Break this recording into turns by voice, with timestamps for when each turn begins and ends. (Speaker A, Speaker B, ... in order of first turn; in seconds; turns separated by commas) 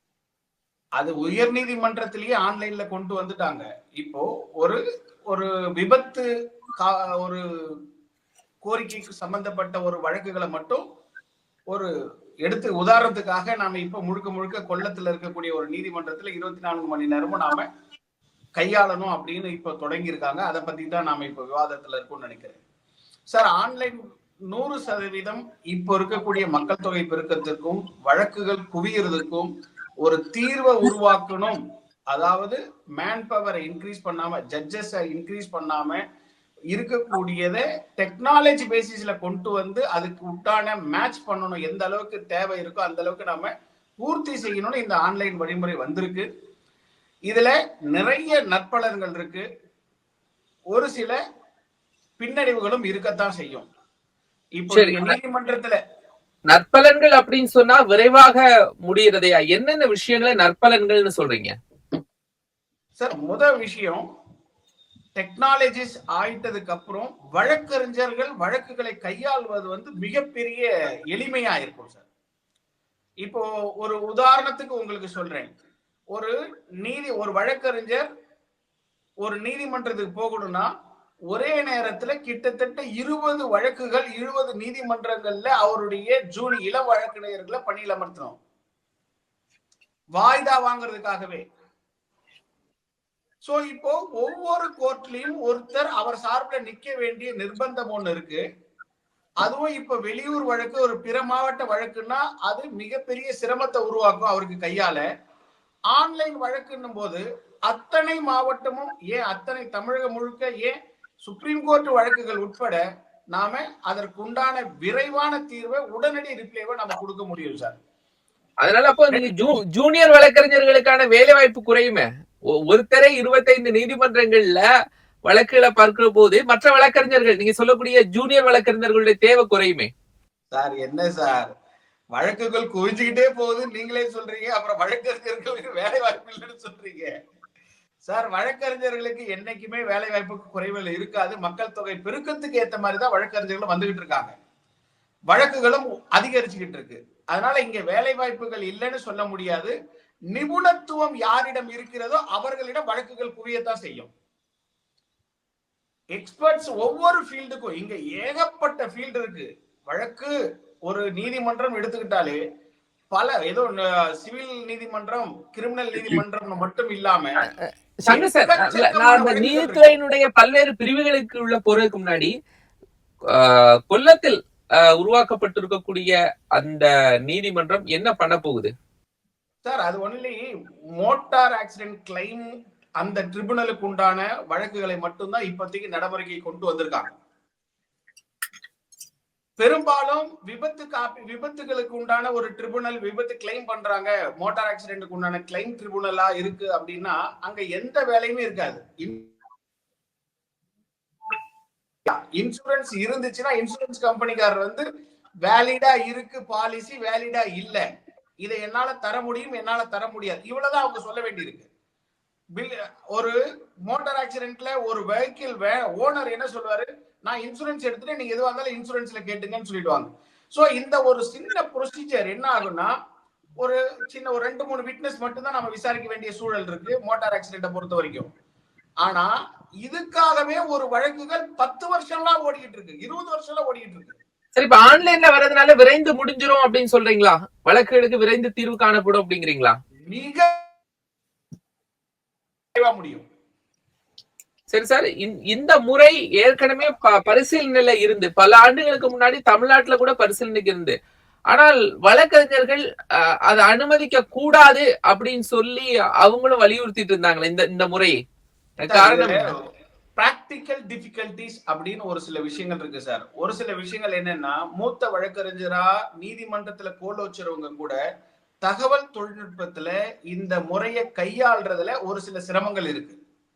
Speaker A: 1.0-6.2, Speaker A: 6.8-7.4, Speaker A: 8.6-10.8, Speaker A: 12.4-17.7, Speaker A: 18.6-22.6, Speaker A: 23.3-24.0, Speaker A: 24.5-29.5, Speaker A: 30.0-36.0, Speaker A: 36.7-46.3, Speaker A: 47.3-49.4, Speaker A: 50.7-51.2, Speaker A: 52.2-53.7, Speaker A: 54.6-55.8, Speaker B: 54.7-55.1, Speaker B: 56.5-61.5, Speaker A: 63.0-64.0, Speaker A: 65.2-72.0, Speaker A: 73.2-75.5, Speaker A: 76.1-78.1, Speaker A: 79.2-80.7, Speaker A: 81.3-88.4, Speaker A: 90.2-91.4, Speaker A: 93.4-98.4, Speaker A: 99.4-105.0, Speaker A: 105.9-112.8, Speaker A: 113.3-117.7, Speaker B: 118.6-122.0, Speaker A: 119.1-119.5, Speaker B: 122.7-124.6, Speaker B: 125.3-129.9, Speaker A: 130.5-131.5, Speaker A: 132.1-137.1, Speaker A: 138.1-144.3, Speaker A: 145.3-149.7, Speaker A: 150.3-154.1, Speaker A: 156.2-160.3, Speaker A: 160.9-162.4, Speaker A: 163.1-167.4, Speaker B: 167.5-172.3, Speaker A: 168.1-169.9, Speaker B: 173.3-178.7, Speaker A: 179.6-180.4, Speaker A: 181.0-187.1, Speaker A: 189.6-199.3, Speaker A: 202.1-204.8, Speaker A: 205.4-207.8, Speaker A: 208.4-211.7, Speaker A: 212.6-213.3, Speaker A: 213.8-222.9, Speaker A: 223.6-228.3, Speaker A: 229.0-234.2, Speaker B: 234.6-239.8, Speaker A: 240.1-240.5, Speaker A: 242.7-243.2, Speaker B: 244.7-250.9, Speaker B: 251.5-252.8, Speaker B: 253.5-258.1, Speaker B: 258.8-259.4, Speaker A: 258.9-259.4, Speaker A: 260.2-268.0, Speaker A: 268.6-273.2